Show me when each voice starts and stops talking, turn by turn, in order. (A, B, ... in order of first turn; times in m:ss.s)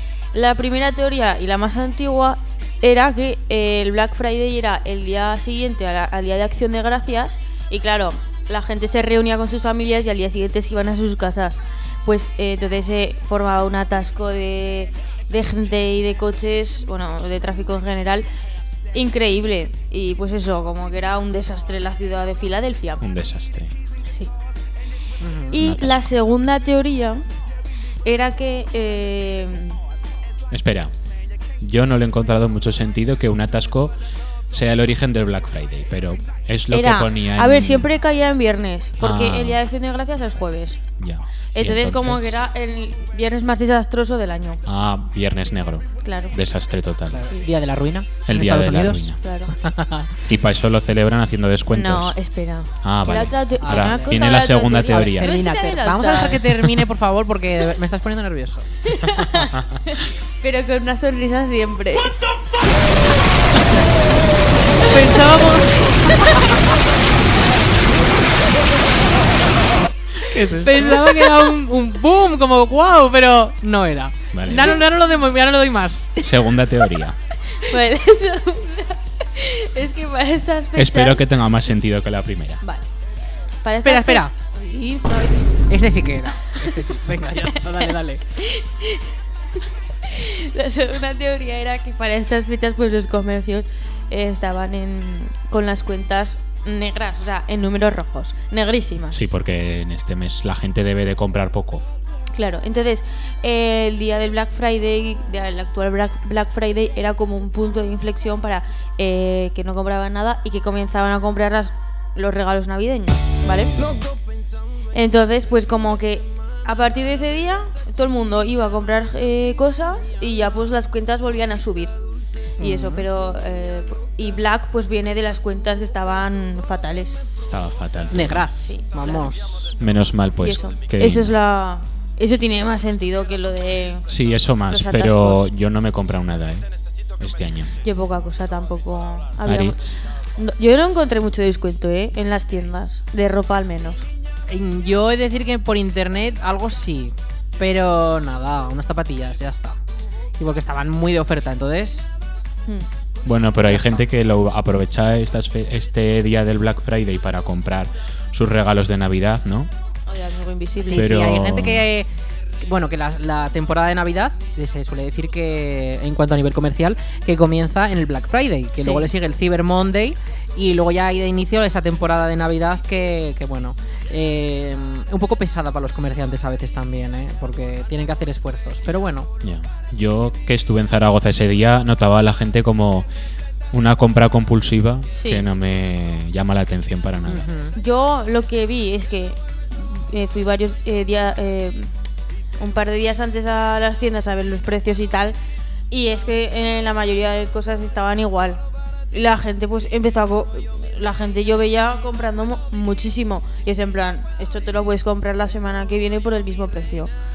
0:00.3-0:18.3 A
0:18.9-0:23.0 A
0:23.0-0:23.8 B
0:25.2-0:25.6 C
0:25.5-0:27.2 A
0:25.6-0:26.1 B
0:28.0-0:29.8 A
0:30.5-0:30.9 B
0:31.6-0:34.0 B
0:34.5-0:37.9 B
0:36.7-0:40.8 A
0:39.0-0:39.6 B
0:41.0-0:42.4 B
0:41.6-0:44.6 A
0:44.7-0:47.3 B
0:46.0-0:46.4 A
0:47.1-0:50.1 C
0:48.3-0:49.2 B
0:49.2-0:49.6 A
0:50.3-0:52.2 B
0:51.7-0:56.7 A
0:52.8-0:55.4 B
0:53.6-0:54.3 C
0:54.9-0:58.7 C
0:58.9-1:02.2 A
1:04.8-1:06.2 A
1:04.9-1:05.8 C
1:10.2-1:11.0 B
1:10.3-1:16.2 C
1:14.3-1:14.8 B
1:16.2-1:17.2 B
1:17.6-1:21.2 A
1:20.8-1:22.6 B
1:23.6-1:25.6 A
1:23.8-1:24.4 C
1:25.7-1:28.2 C
1:26.6-1:27.6 A
1:28.4-1:29.1 A
1:30.0-1:39.3 A
1:39.1-1:41.8 B
1:42.4-1:53.8 A
1:54.9-2:02.0 A
2:02.6-2:03.1 C
2:02.6-2:07.2 A
2:07.4-2:08.5 B
2:08.1-2:09.8 C
2:08.7-2:09.3 A
2:09.8-2:11.4 B
2:10.4-2:14.1 A
2:14.1-2:16.7 B
2:14.7-2:15.5 A
2:17.2-2:17.8 B
2:17.8-2:19.8 A
2:19.4-2:20.0 B
2:20.4-2:24.1 A
2:24.5-2:29.8 C
2:30.4-2:32.1 C
2:33.2-2:39.7 B
2:33.7-2:34.0 C
2:40.1-2:41.2 A
2:40.8-2:42.1 C
2:40.9-2:41.9 B
2:42.6-2:59.3 C
2:48.8-2:49.1 A
2:59.4-3:03.1 B
3:03.7-3:07.5 B
3:05.2-3:05.5 A
3:07.3-3:07.8 C
3:07.8-3:11.9 A
3:12.6-3:15.4 A
3:15.9-3:27.1 A